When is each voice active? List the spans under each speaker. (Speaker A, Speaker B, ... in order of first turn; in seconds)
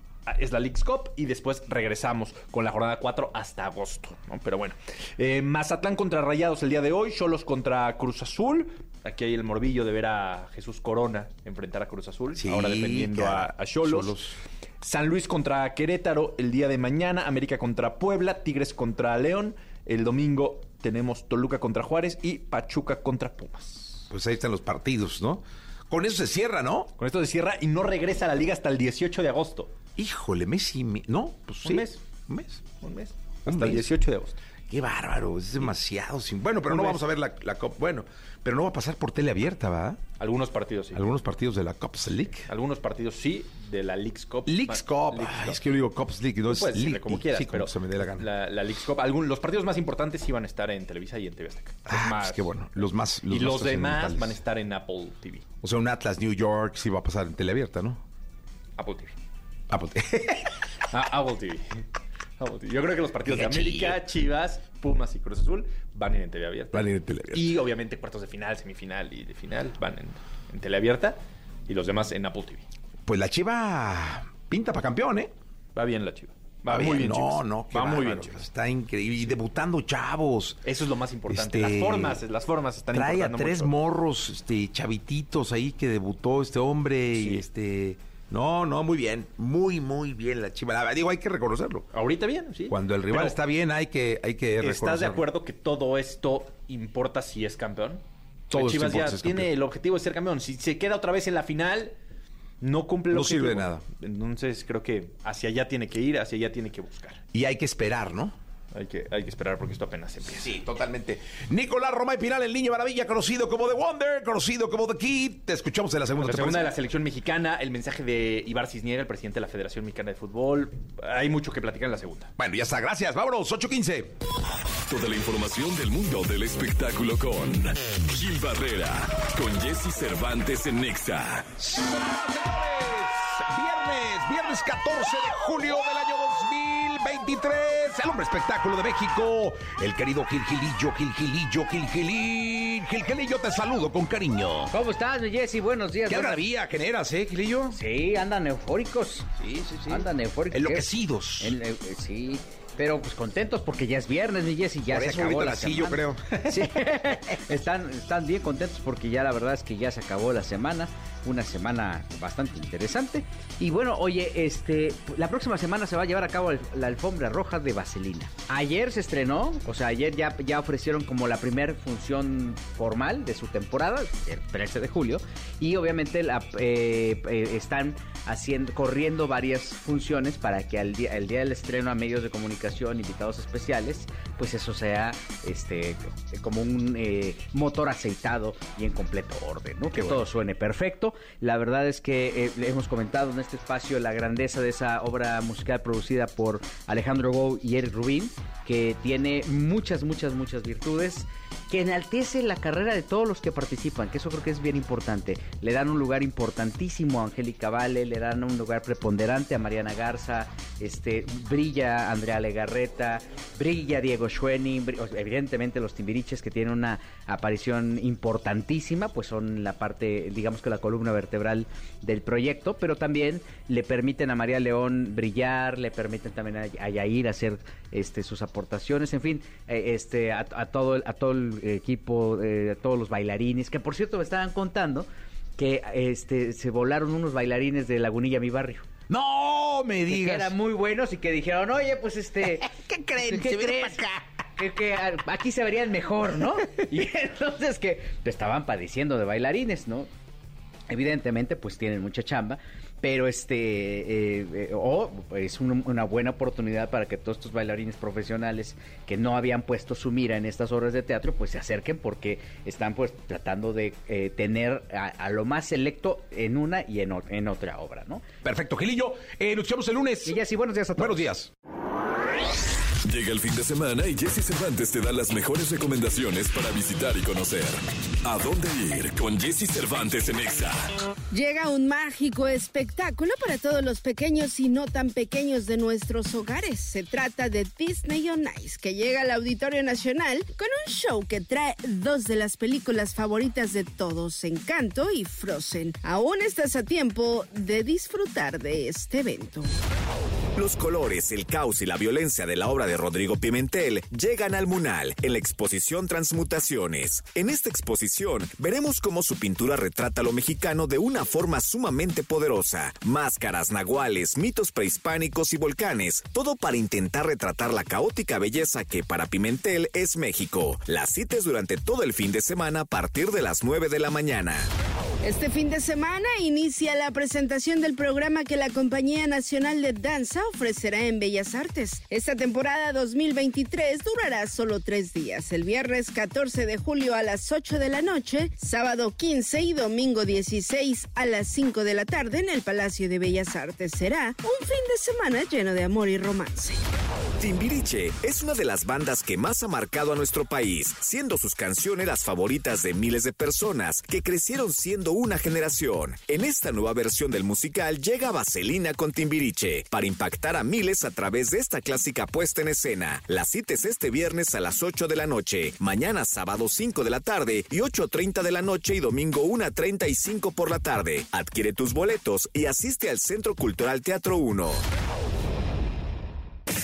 Speaker A: 0.2-14.2, 14.8-24.1, 27.0-29.7, 31.6-32.0, 32.8-34.4, 36.7-37.0, 40.2-41.0, 42.5-45.6, 46.5-55.4, 58.8-59.1, 60.9-61.6, 62.4-72.7, 75.8-78.4, 80.6-83.8, 87.1-87.5, 91.9-93.4, 94.6-102.0, 102.6-107.2, 108.7-110.6, 116.1-122.3
Speaker B: 12.4-14.3, 24.1-26.9, 29.9-32.6, 33.5-33.9, 34.7-40.0, 40.9-42.5, 44.5-48.3, 51.9-54.4, 55.6-58.0, 59.7-60.5, 63.3-64.0, 66.7-67.5, 73.0-75.3, 76.7-80.6, 81.3-82.2, 82.9-91.9, 92.7-95.2, 98.5-99.5, 103.1-103.8, 107.3-108.3, 110.3-116.7, 122.4-124.1, 131.6-144.7, 146.1-147.8, 149.4-151.5, 154.9-156.7, 189.9-190.2, 239.1-240.5, 242.6-244.2, 268.4-270.3, 271.0-271.5
Speaker C: 124.9-131.5, 273.0-280.9
Speaker D: 144.7-146.4, 147.7-149.3, 149.9-238.8, 240.1-242.7, 243.2-244.0, 244.6-250.1, 250.9-268.2, 270.2-271.3
Speaker E: 281.3-299.7, 325.2-346.8
Speaker F: 300.6-324.7, 347.4-374.8